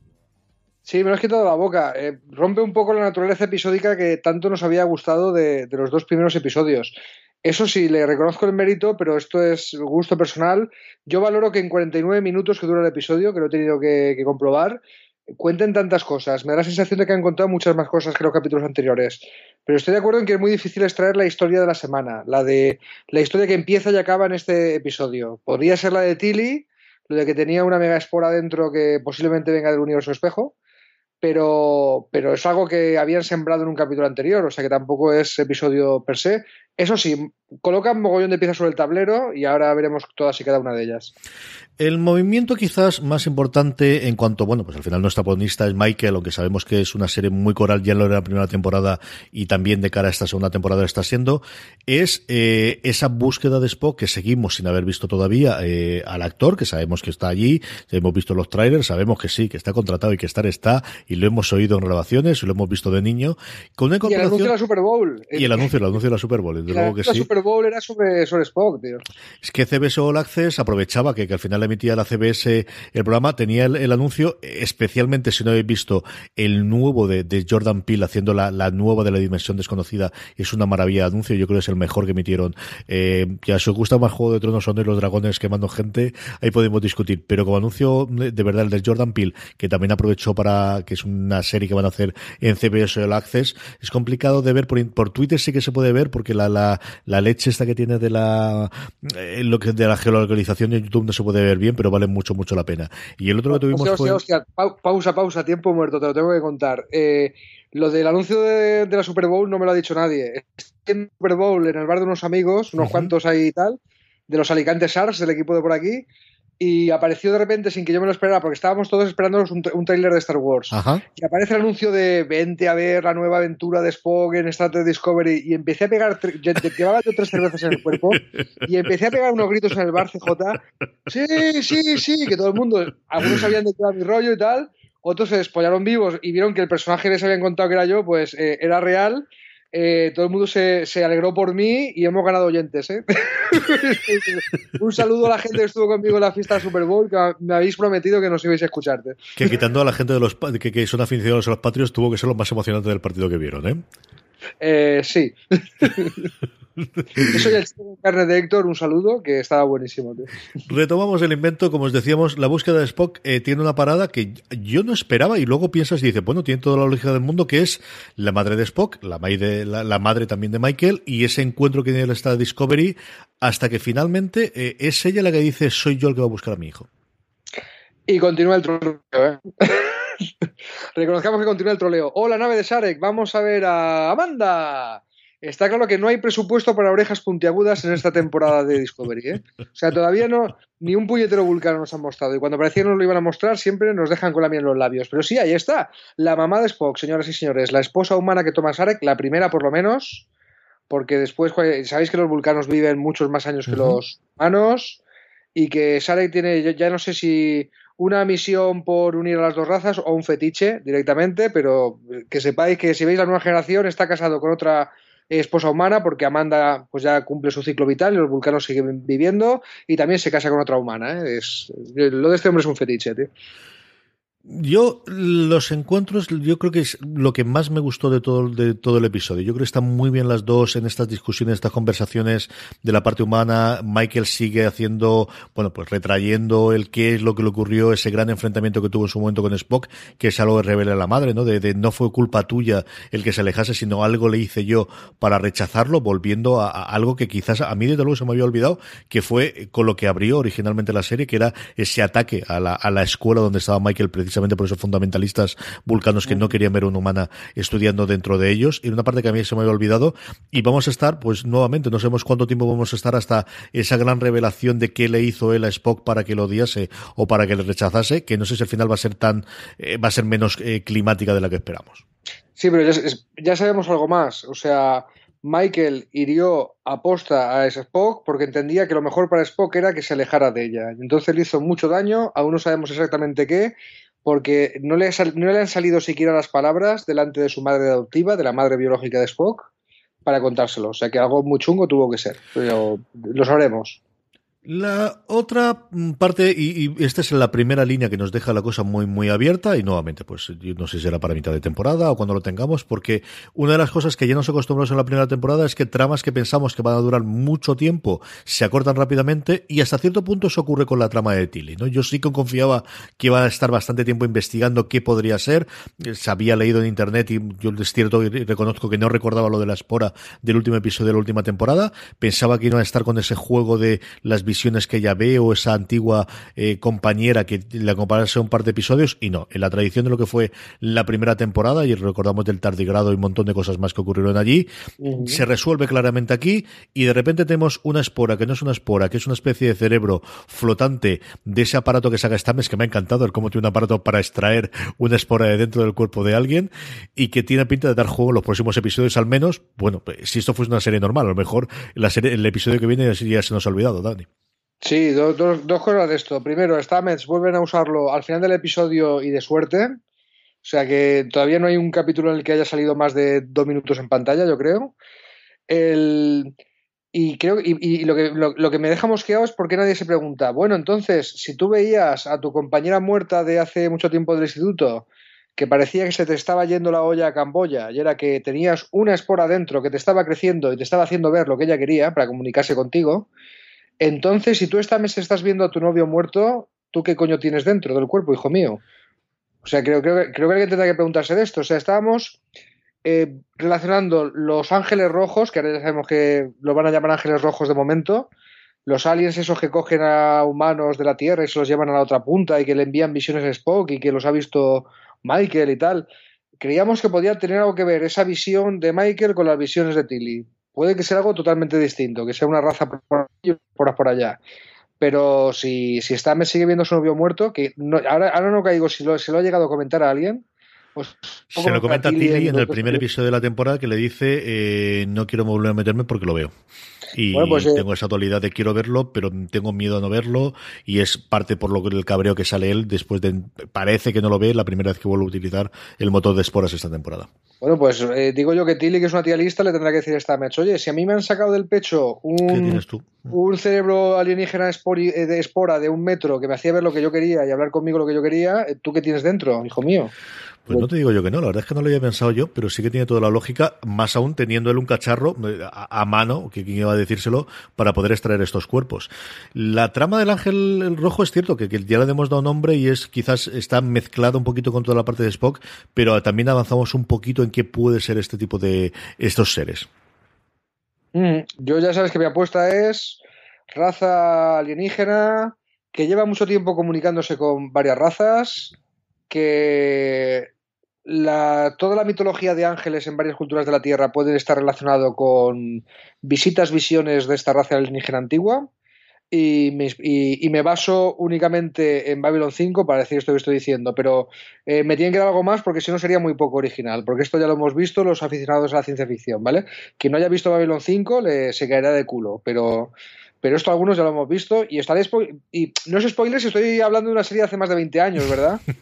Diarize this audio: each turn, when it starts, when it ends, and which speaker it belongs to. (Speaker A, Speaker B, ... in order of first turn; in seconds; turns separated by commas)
Speaker A: 0.8-14.8, Speaker A: 15.4-30.5, Speaker A: 31.2-41.1, Speaker B: 41.8-64.5, Speaker A: 64.0-65.7, Speaker B: 65.3-67.3, Speaker A: 66.7-69.0, Speaker B: 69.4-104.2, Speaker A: 103.5-116.0, Speaker B: 112.8-113.1, Speaker A: 116.6-149.3, Speaker B: 120.7-121.0, Speaker B: 149.4-153.8, Speaker A: 154.6-156.3, Speaker B: 157.2-157.5, Speaker A: 157.2-160.4, Speaker B: 160.7-176.9, Speaker A: 178.1-180.1, Speaker A: 180.9-200.3, Speaker A: 200.9-205.0, Speaker B: 203.7-204.0, Speaker A: 205.5-223.3, Speaker B: 224.5-272.0, Speaker A: 256.2-256.6, Speaker A: 272.6-283.7, Speaker A: 284.2-289.7, Speaker A: 290.2-294.0, Speaker B: 294.6-334.7, Speaker A: 335.0-335.4, Speaker B: 335.2-354.3, Speaker A: 354.8-360.0, Speaker A: 360.6-364.9, Speaker A: 365.7-366.5, Speaker A: 367.1-383.3, Speaker A: 384.0-388.8, Speaker A: 389.6-392.4, Speaker A: 393.0-398.3, Speaker A: 398.9-406.1, Speaker A: 406.6-414.4, Speaker A: 415.0-420.4, Speaker A: 420.9-423.0, Speaker B: 421.5-426.5, Speaker B: 427.1-437.3, Speaker A: 427.3-427.8, Speaker A: 437.6-450.1, Speaker B: 442.4-443.3, Speaker B: 450.7-469.9, Speaker A: 471.1-473.2, Speaker A: 473.7-478.7, Speaker A: 479.3-480.5, Speaker A: 481.1-488.7, Speaker A: 489.3-508.6